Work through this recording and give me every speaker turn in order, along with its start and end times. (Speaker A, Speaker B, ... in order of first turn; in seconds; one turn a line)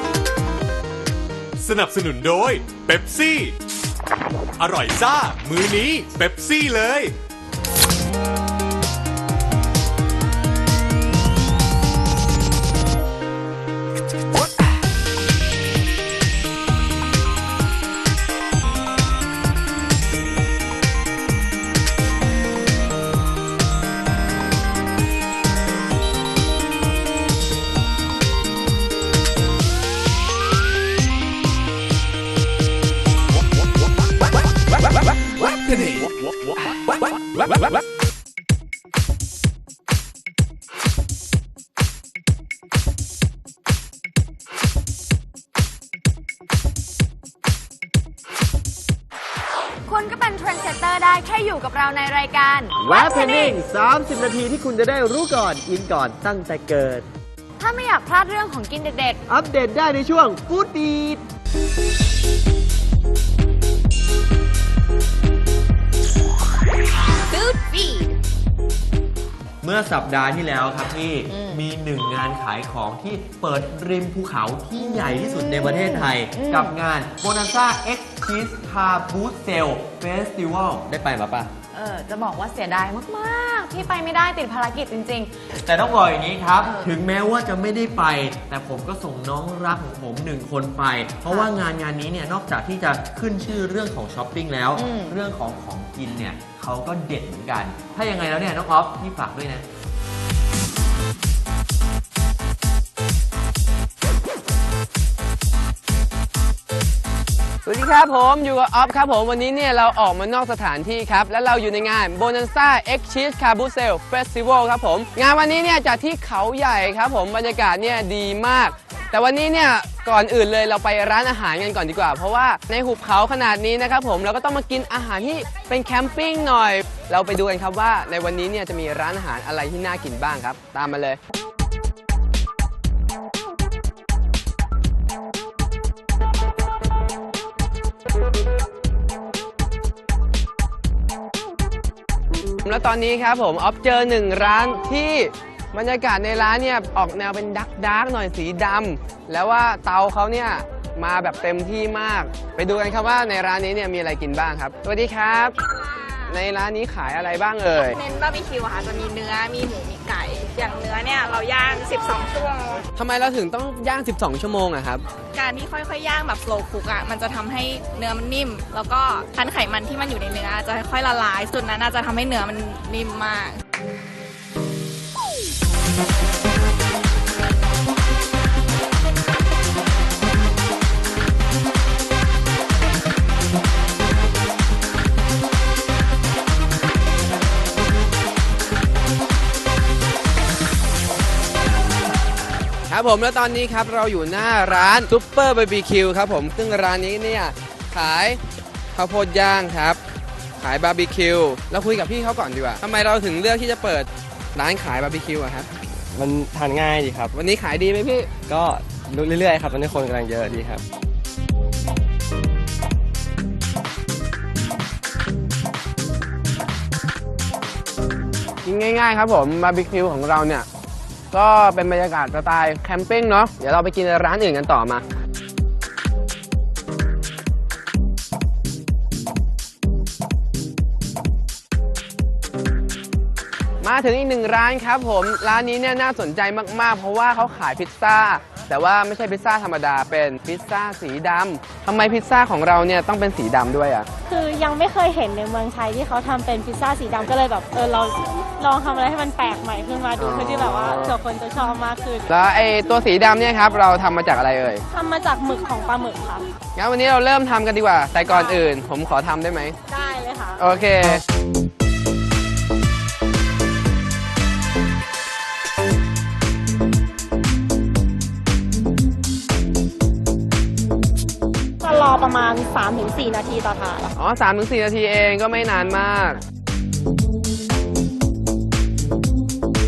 Speaker A: 1.6-3.5
Speaker A: 4.6-7.1
Speaker B: 49.9-53.6
Speaker C: 52.8-57.1
Speaker B: 57.6-59.2
Speaker C: 59.3-61.2
Speaker D: 67.3-68.1
Speaker C: 69.6-81.5
Speaker B: 71.3-71.6
Speaker B: 74.8-76.8
Speaker B: 81.7-85.3
Speaker C: 85.5-99.7
Speaker B: 86.6-86.9
Speaker B: 94.8-95.2
Speaker E: 107.7-131.2
Speaker E: 142.7-155.5
Speaker D: 155.8-156.3
Speaker E: 156.3-158.0
Speaker D: 157.9-162.8
Speaker E: 162.9-165.0
Speaker D: 165.3-173.6
Speaker E: 192.9-198.4
Speaker E: 198.9-200.0
Speaker E: 200.6-205.7
Speaker F: 206.1-207.3
Speaker E: 207.3-208.3
Speaker F: 208.5-210.8
Speaker E: 218.7-220.7
Speaker E: 221.3-225.0
Speaker E: 233.8-244.1
Speaker G: 244.2-252.3
Speaker E: 250.2-251.2
Speaker E: 252.3-254.8
Speaker G: 254.9-256.5
Speaker E: 256.8-259.8
Speaker G: 258.2-258.7
Speaker G: 259.9-260.7
Speaker E: 260.6-261.2
Speaker G: 271.8-274.1
Speaker E: 274.2-276.4